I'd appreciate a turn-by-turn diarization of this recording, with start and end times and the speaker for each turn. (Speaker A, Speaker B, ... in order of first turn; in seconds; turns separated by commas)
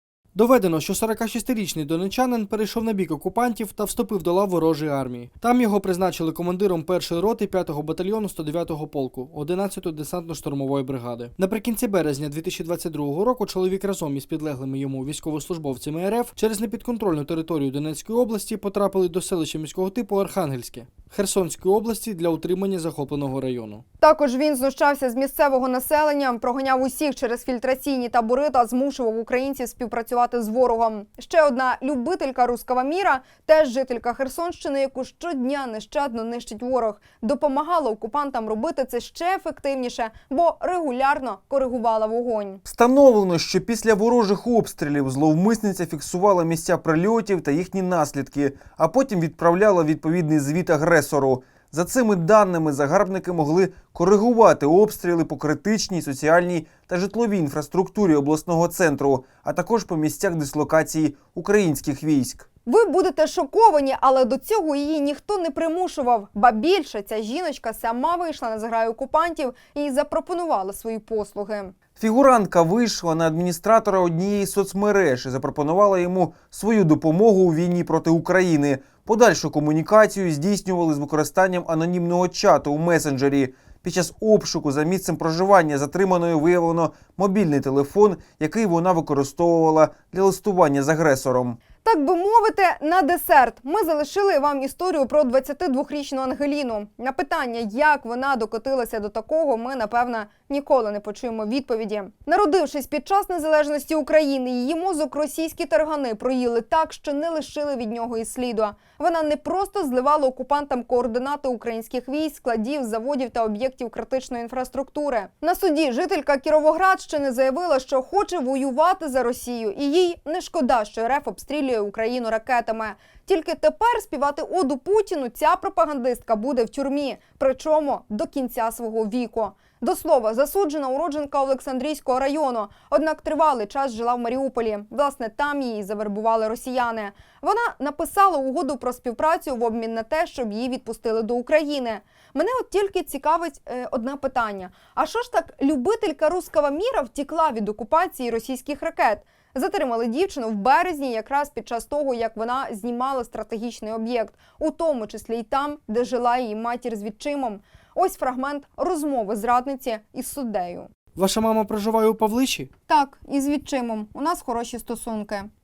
Speaker A: 0.3-23.8, Speaker B: 24.0-42.6, Speaker C: 42.6-62.5, Speaker B: 62.6-71.7, Speaker C: 72.0-91.6, Speaker B: 91.8-160.9, Speaker A: 161.2-162.7, Speaker B: 162.9-165.5